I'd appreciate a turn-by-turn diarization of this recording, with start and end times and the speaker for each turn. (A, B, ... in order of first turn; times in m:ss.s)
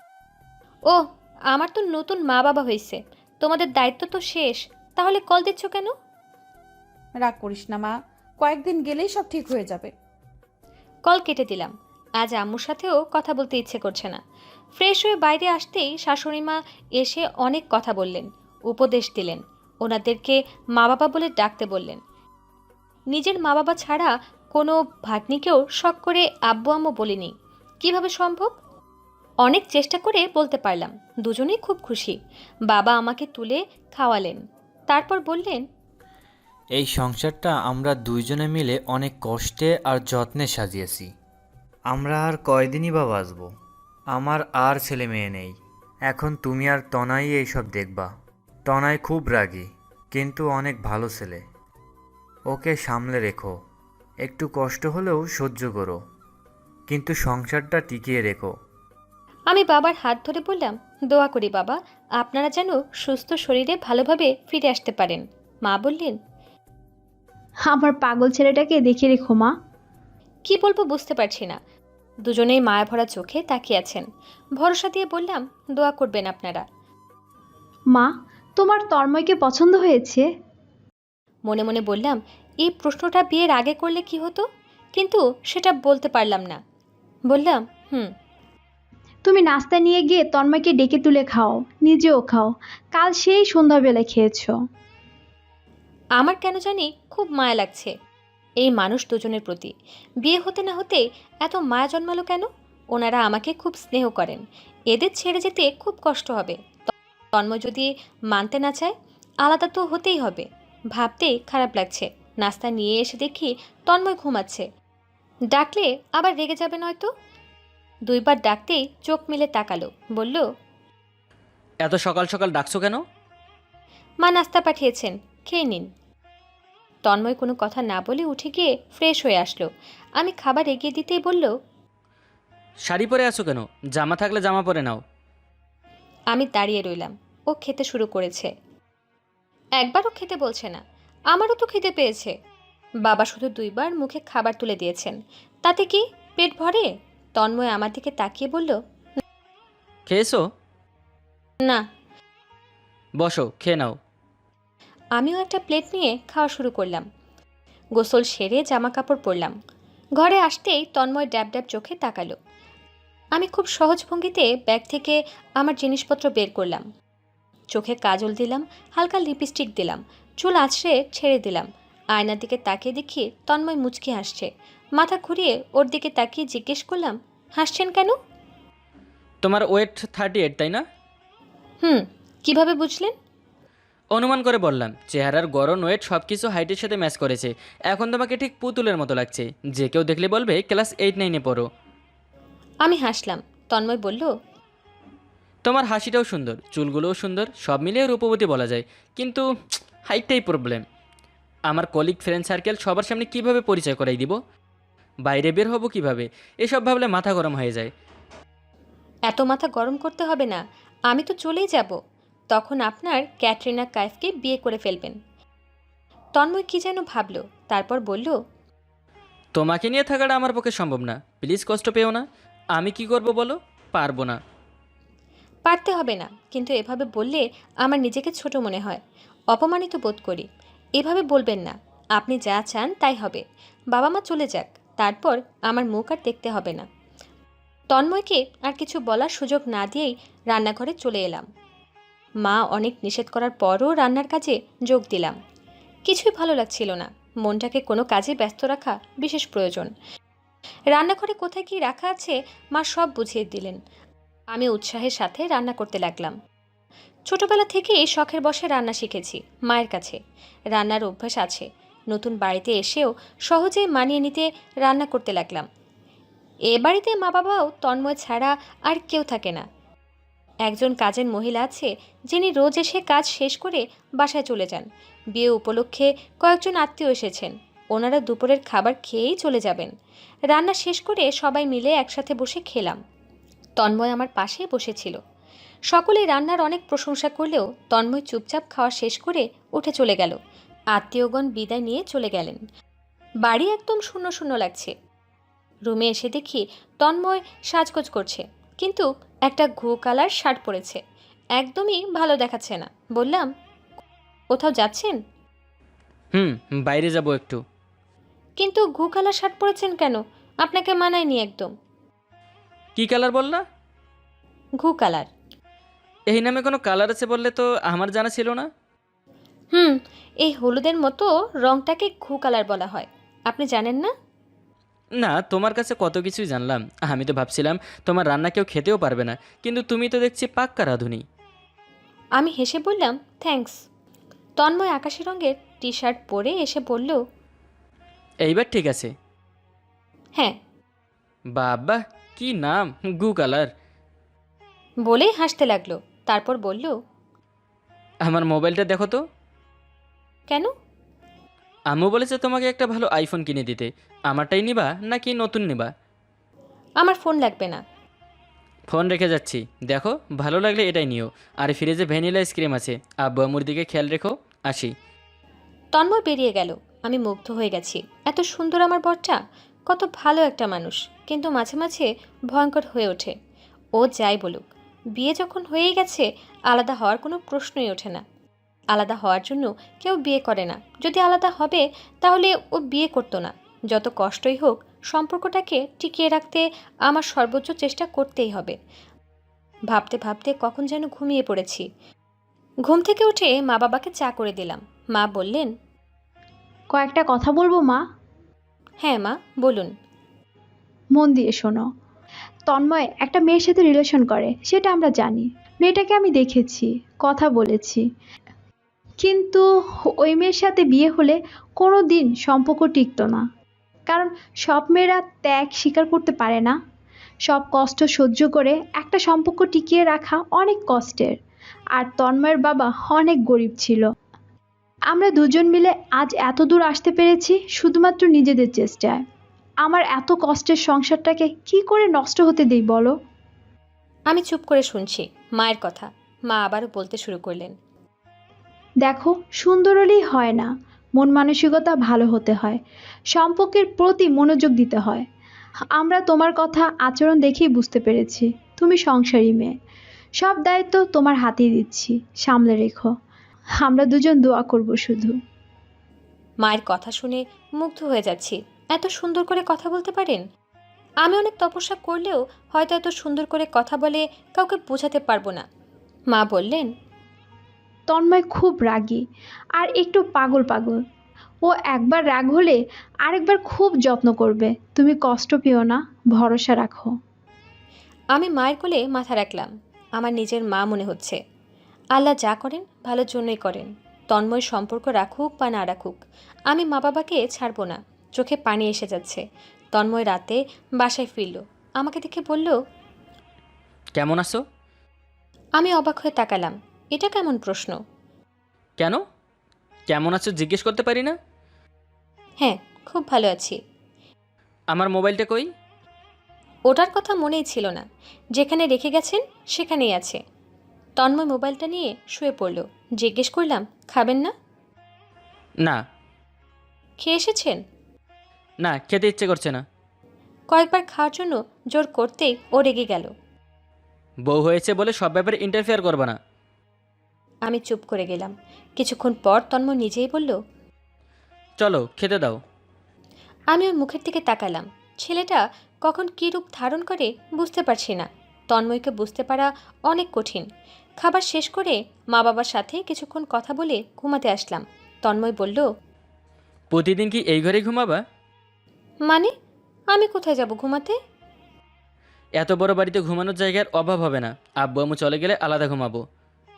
0:00.9-0:05.9 A
0:07.2-0:09.9 B
0:11.1-0:14.2 A
0:14.8-0:22.0 A
0:23.1-0:28.5 A
0:29.4-0:32.2 A
0:32.7-0:35.6 A
0:36.7-0:41.1 C
0:41.9-0:43.5 C
0:44.1-0:45.5 C
0:46.1-0:48.1 C
0:48.6-0:51.4 C
0:52.5-0:53.5 C
0:54.2-0:56.0 C
0:56.9-0:58.5 C
0:59.5-1:06.2 A
1:07.6-1:09.5 D
1:10.4-1:11.6 A
1:12.2-1:14.0 A
1:14.6-1:16.6 A
1:17.9-1:20.3 D
1:21.5-1:26.6 A
1:27.3-1:28.1 A
1:29.2-1:34.5 D
1:36.2-1:37.9 A
1:38.6-1:54.7 A
1:55.5-1:57.1 A
1:58.1-2:00.4 A
2:01.8-2:03.0 E
2:04.2-2:05.9 A
2:07.0-2:09.7 A
2:10.2-2:11.5 A
2:12.8-2:15.0 E
2:16.3-2:18.5 A
2:19.8-2:22.3 A
2:23.0-2:28.8 A
2:30.1-2:30.4 E
2:33.2-2:34.0 E
2:35.2-2:37.0 A
2:38.0-2:39.5 A
2:40.2-2:42.4 A
2:43.3-2:46.8 A
2:47.7-2:58.1 A
2:59.4-3:00.8 E
3:01.8-3:03.1 A
3:04.1-3:11.6 E
3:12.8-3:14.3 A
3:15.6-3:19.4 E
3:20.1-3:20.8 E
3:21.7-3:24.3 E
3:25.2-3:27.9 E
3:29.3-3:32.0 A
3:32.5-3:35.2 A
3:36.4-3:38.4 A
3:39.6-3:44.4 E
3:45.6-3:49.0 A
3:49.5-3:50.5 A
3:51.0-3:56.8 A
3:57.9-4:01.5 A
4:02.4-4:05.4 A
4:06.1-4:09.9 A
4:10.9-4:13.8 A
4:14.5-4:16.4 A
4:17.3-4:20.2 A
4:20.7-4:25.6 A
4:26.7-4:29.6 A
4:30.6-4:39.9 A
4:40.5-4:43.0 A
4:43.8-4:45.2 A
4:45.9-4:50.4 A
4:50.9-4:52.6 A
4:53.4-4:54.9 A
4:55.9-5:01.0 A
5:01.6-5:03.5 A
5:04.5-5:05.2 A
5:06.3-5:07.6 E
5:08.6-5:11.7 A
5:13.0-5:13.6 E
5:14.8-5:15.3 A
5:16.3-5:18.7 E
5:19.7-5:24.1 A
5:25.2-5:31.2 E
5:32.4-5:33.8 A
5:34.6-5:37.2 A
5:38.4-5:39.1 E
5:41.5-5:43.7 E
5:45.0-5:46.9 A
5:48.2-5:49.2 E
5:51.9-5:55.9 E
5:57.0-5:57.8 A
5:58.9-6:04.9 E
6:05.9-6:13.3 A
6:14.0-6:18.2 A
6:18.9-6:28.8 A
6:29.9-6:31.9 A
6:32.8-6:35.7 A
6:36.9-6:38.0 D
6:39.0-6:39.9 A
6:41.1-6:41.9 D
6:42.7-6:48.0 D
6:49.2-6:53.4 D
6:54.1-6:56.8 D
6:57.4-7:01.4 D
7:01.9-7:04.1 D
7:05.1-7:09.2 D
7:09.8-7:13.1 D
7:14.3-7:17.7 A
7:19.0-7:22.8 D
7:23.3-7:25.2 D
7:25.9-7:29.7 D
7:30.4-7:33.1 D
7:33.8-7:35.4 D
7:36.6-7:40.4 A
7:41.2-7:45.6 A
7:46.3-7:46.9 A
7:48.1-7:49.2 D
7:49.7-7:51.0 D
7:51.6-7:57.1 D
7:58.3-8:01.4 A
8:02.1-8:06.2 A
8:06.7-8:09.4 A
8:09.9-8:12.8 A
8:14.2-8:14.6 E
8:15.8-8:18.0 A
8:20.1-8:21.3 E
8:22.6-8:23.8 A
8:24.9-8:25.7 E
8:26.9-8:30.4 A
8:31.2-8:34.5 A
8:37.2-8:37.8 A
8:38.8-8:39.8 E
8:40.7-8:43.3 A
8:44.4-8:46.4 E
8:47.7-8:50.6 A
8:51.8-8:52.6 E
8:53.7-9:00.7 A
9:01.2-9:05.9 A
9:06.9-9:08.2 E
9:09.3-9:09.5 A
9:10.1-9:11.2 A
9:12.6-9:16.2 E